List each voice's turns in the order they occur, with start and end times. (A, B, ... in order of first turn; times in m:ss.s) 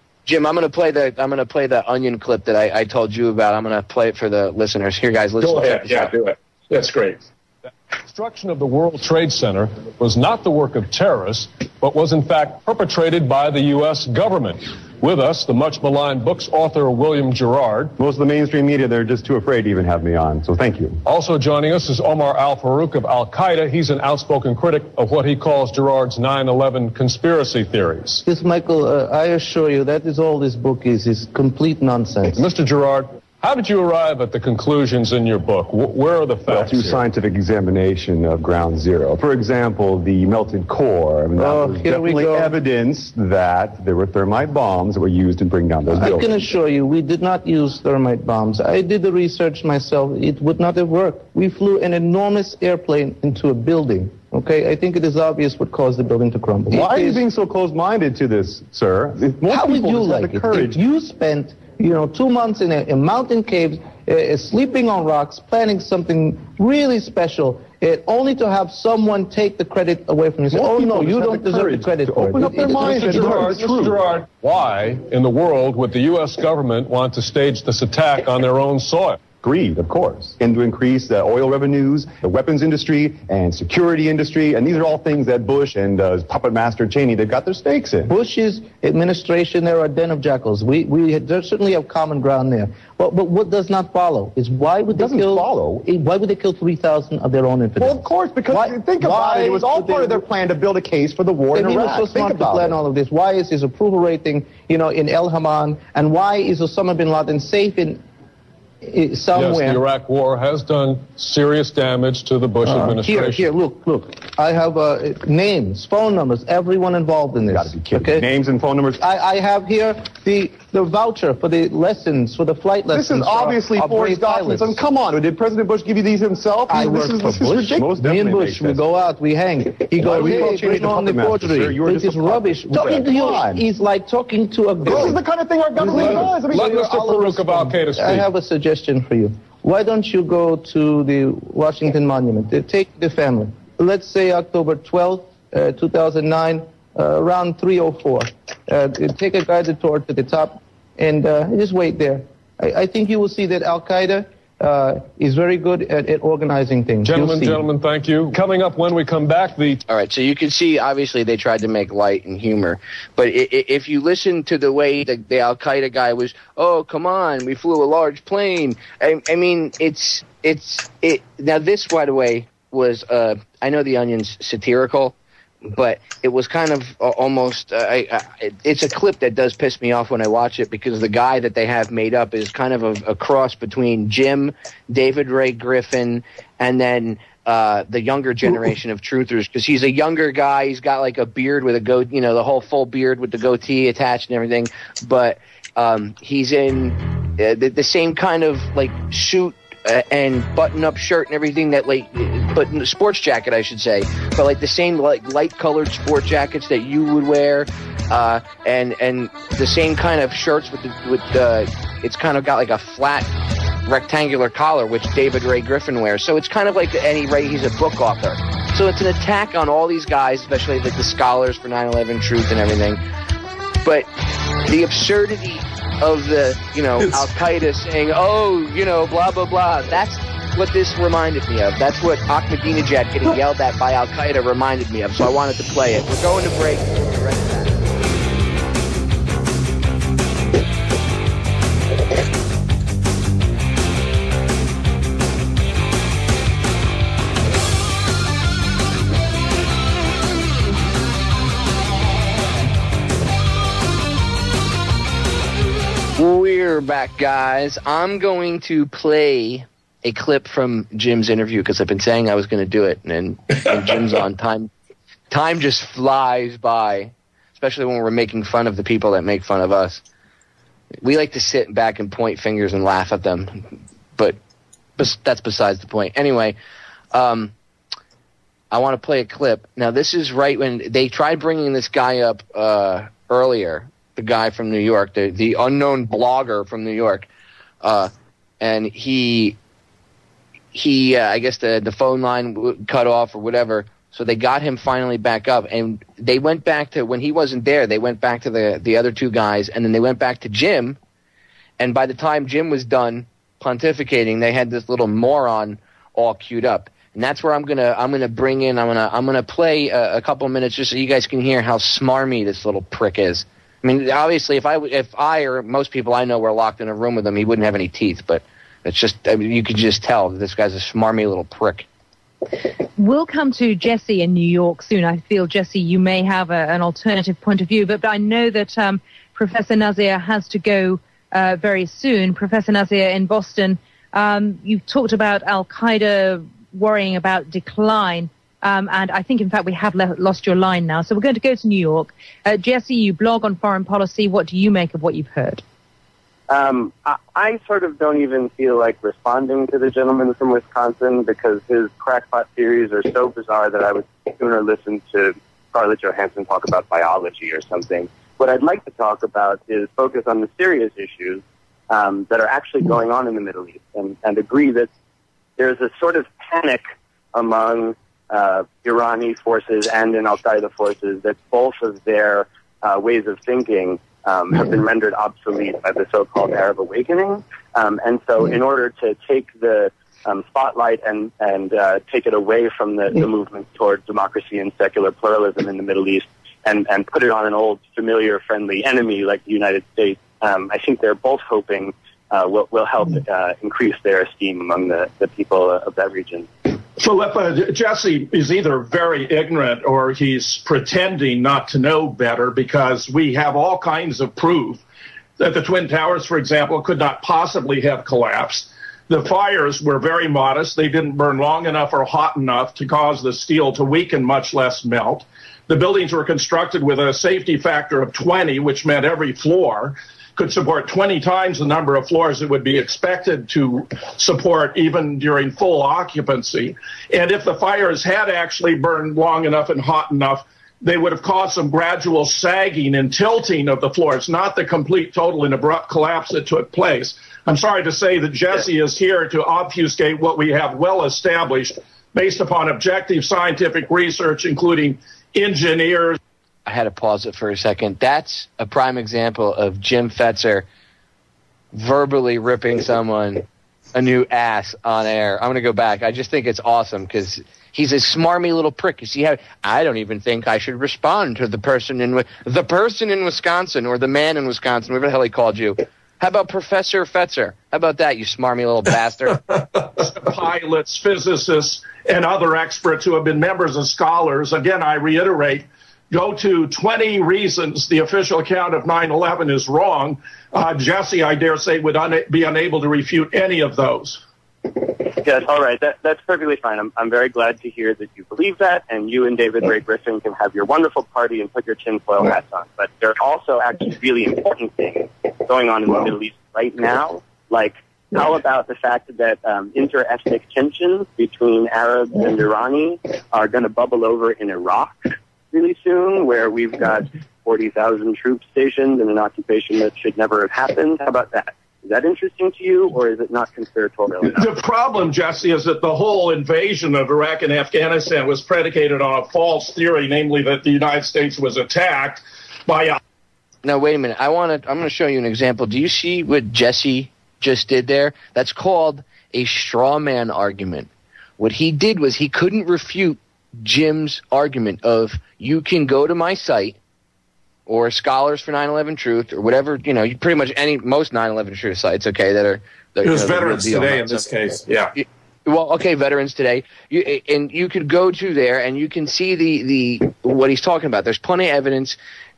0:00.2-0:06.1 A
0:05.4-0:07.2 B
0:08.1-0:17.9 C
0:18.0-0:21.0 D
0:21.0-0:28.2 C
0:28.2-0:32.4 E
0:32.3-0:37.1 C
0:36.5-0:46.4 D
0:41.4-0:42.6 E
0:45.9-0:57.2 E
0:56.7-1:00.8 D
0:59.4-1:13.5 E
1:10.5-1:14.1 D
1:12.7-1:19.3 C
1:19.3-1:28.1 D
1:28.1-1:40.3 E
1:34.9-1:35.8 D
1:37.8-1:42.8 D
1:41.5-1:48.0 E
1:48.8-1:49.8 E
1:49.3-1:53.5 C
1:52.6-1:58.3 E
1:57.5-1:59.0 D
1:59.0-2:04.8 E
2:02.9-2:08.8 D
2:06.7-2:37.6 E
2:10.0-2:13.6 D
2:14.8-2:17.0 D
2:15.8-2:18.3 C
2:37.0-2:39.8 C
2:39.9-2:55.1 A
2:55.7-3:33.3 A
3:33.8-3:43.0 A
3:43.8-3:44.1 A
3:44.6-3:57.8 A
4:16.2-4:24.7 A
4:25.3-4:30.0 A
4:31.0-4:34.4 A
4:35.0-4:36.6 A
4:37.1-4:37.5 A
4:38.7-4:47.3 A
4:47.8-4:49.6 A
4:50.7-5:01.0 A
5:01.8-5:21.8 A
5:23.0-5:45.6 F
5:46.5-6:04.9 G
6:05.6-6:06.8 G
6:07.3-6:36.5 G
6:37.0-6:44.8 B
6:45.4-7:26.2 B
7:26.6-7:30.6 A
7:31.7-7:49.4 A
7:49.7-8:04.2 B
8:04.8-8:34.5 G
8:34.2-8:43.0 B
8:43.6-8:56.8 A
8:57.7-9:04.3 A
9:03.0-9:04.9 B
9:04.9-9:12.0 A